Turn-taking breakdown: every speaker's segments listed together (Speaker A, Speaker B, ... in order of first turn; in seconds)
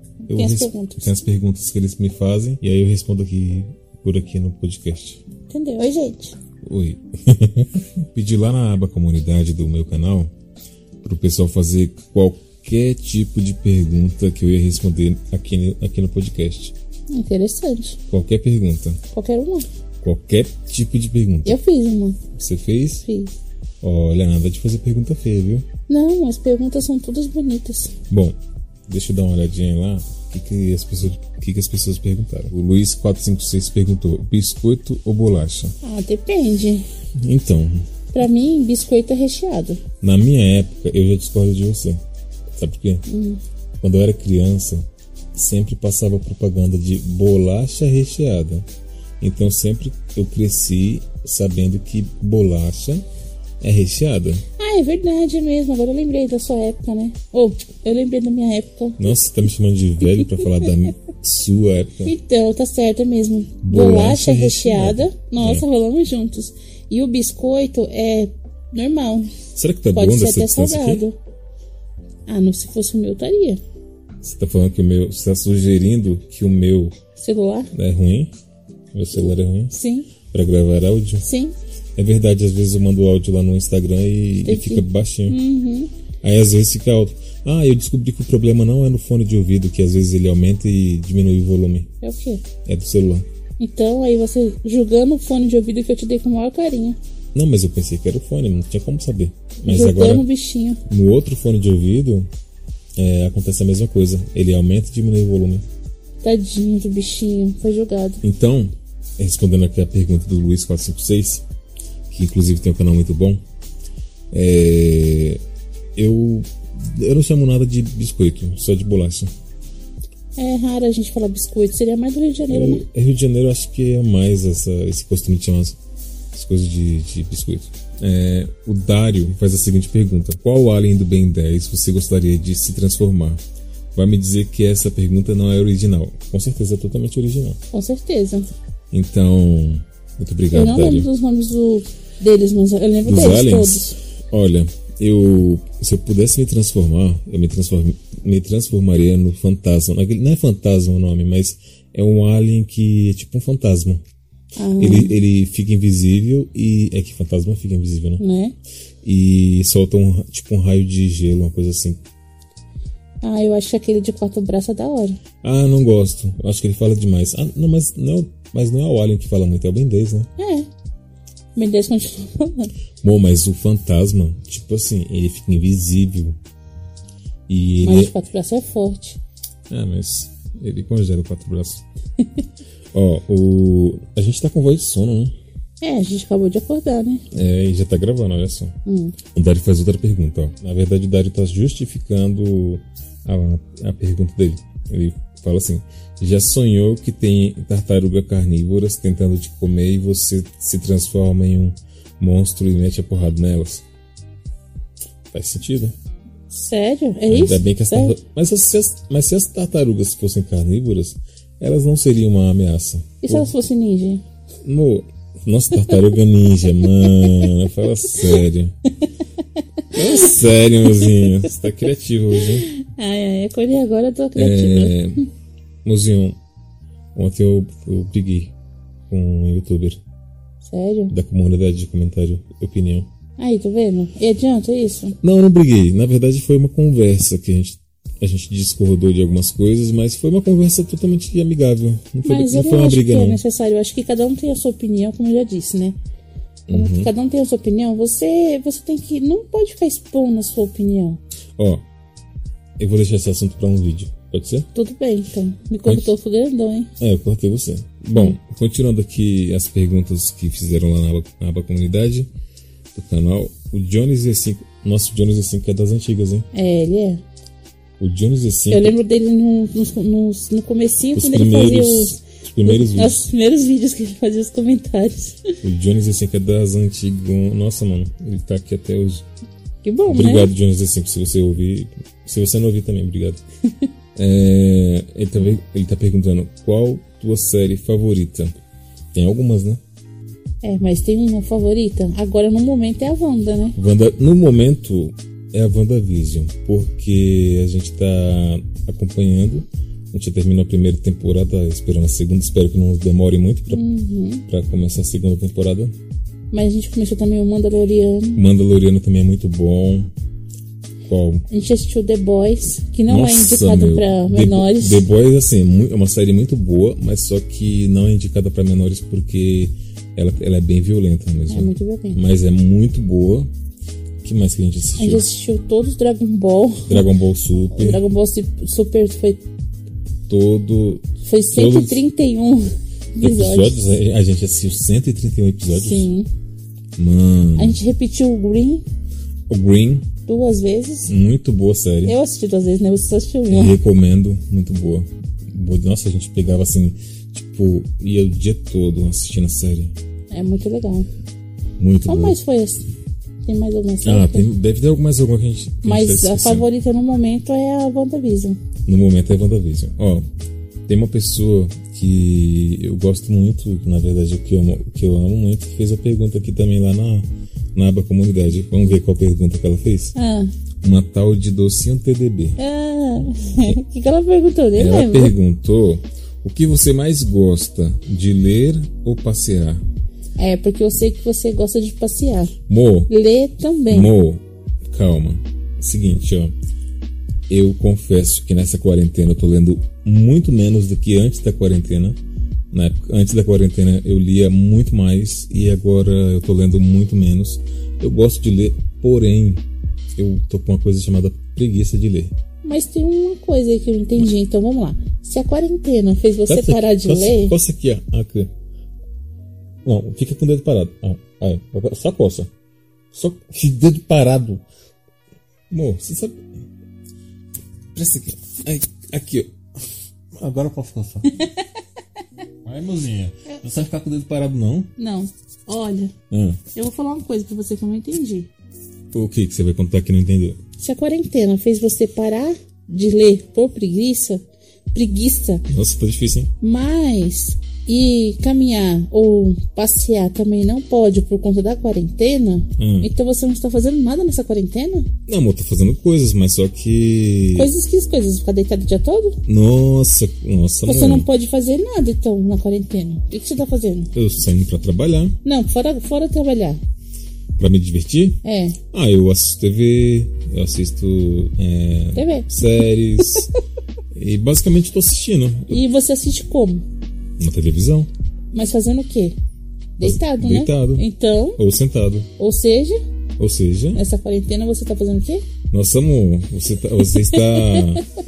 Speaker A: 0.3-5.2, 6.6-10.3, 11.0-16.7, 18.1-19.0, 20.0-21.6, 22.3-23.0, 23.8-25.6, 28.1-28.4, 28.9-35.7, 37.2-37.8, 40.0-42.0, 42.5-43.0, 43.8-48.6, 49.2-53.0, 53.6-54.4, 59.0-62.1, 63.6-65.7, 69.5-71.0, 74.2-76.9, 77.7-78.3, 78.9-79.7, 80.3-81.2, 82.0-85.4, 86.2-91.9, 92.7-93.2, 97.3-100.2, 100.9-102.3, 103.0-105.6, 108.2-111.4, 112.1-113.4, 114.3-115.4, 116.0-119.3, 122.5-125.8, 126.3-133.4, 133.9-137.6, 138.9-141.1, 143.0-154.0, 154.8-158.2, 159.0-162.0, 165.4-170.3, 173.0-176.4, 177.5-178.1, 179.7-181.8, 182.9-185.3, 187.3-188.7, 189.3-203.8, 205.3-205.9, 207.3-213.5, 214.6-218.7, 219.9-222.7, 224.3-225.2, 225.8-226.3, 227.1-228.5, 229.1-230.0, 231.1-233.1, 235.2-243.4, 246.7-247.1, 251.6-251.8, 252.8-254.7, 255.8-256.1, 257.0-262.3, 262.9-266.5, 268.0-268.9, 271.1-273.2, 275.6-279.3, 280.1-283.4, 284.1-288.6, 289.1-289.8, 293.8-303.9, 304.5-305.9, 308.3-310.1, 311.1-311.4, 313.1-323.5, 324.2-325.3, 326.9-328.0, 330.3-332.0, 333.2-336.1, 337.0-337.8, 339.5-340.1, 341.0-342.2, 343.5-349.9, 351.8-352.4, 354.0-356.7, 358.9-360.2, 360.9-370.1, 370.8-372.6, 374.8-379.8, 382.7-383.1, 383.9-386.5, 387.5-392.2, 392.7-399.6, 400.2-402.3, 406.4-408.5, 409.8-412.5, 413.1-414.6, 415.7-416.4, 417.9-419.5, 420.3-421.3, 422.6-424.9, 426.3-426.6, 429.1-430.6, 435.7-436.5, 442.8-443.1, 445.3-447.7, 449.4-451.3, 454.1-455.4, 457.6-458.4, 458.9-463.5, 464.1-465.8, 467.4-468.1, 470.0-471.1, 471.6-472.3, 473.4-474.0, 475.7-478.0
Speaker B: 0.3-1.1, 5.5-6.3, 17.1-18.0, 19.1-19.7, 21.4-22.2, 23.0-23.3, 25.9-27.9, 35.8-36.8, 38.1-39.8, 43.1-43.4, 54.6-59.0, 62.0-69.3, 69.9-71.2, 72.3-73.6, 77.2-77.7, 79.7-80.1, 81.2-81.5, 84.4-85.9, 92.0-92.4, 93.6-97.0, 99.7-100.8, 106.2-108.2, 120.3-122.8, 137.7-138.5, 140.5-143.9, 154.6-155.1, 158.2-158.5, 163.2-165.2, 170.4-170.7, 171.5-172.7, 177.8-179.2, 185.8-187.2, 188.8-189.2, 206.5-208.2, 213.2-214.2, 216.8-217.5, 220.9-221.5, 222.5-224.9, 230.6-231.1, 233.4-235.2, 242.2-245.9, 246.7-251.2, 254.7-256.9, 266.5-267.2, 268.7-275.4, 279.8-280.5, 290.6-293.8, 303.7-304.4, 306.5-308.4, 311.5-315.0, 321.5-322.2, 325.0-327.0, 327.7-329.4, 331.2-333.8, 335.7-336.3, 337.6-338.8, 340.3-341.1, 342.0-343.8, 350.3-351.1, 352.1-352.8, 353.4-354.5, 355.8-358.6, 370.1-370.5, 372.6-375.3, 380.4-382.5, 383.1-384.1, 402.6-407.5, 421.3-421.6, 425.0-426.1, 426.7-428.5, 430.8-435.6, 436.6-445.1, 447.5-449.4, 450.9-454.1, 455.4-456.8, 458.4-458.8, 462.1-462.5, 465.7-466.8, 468.5-469.4, 470.0-471.6, 472.4-473.0, 473.9-475.4, 477.3-477.9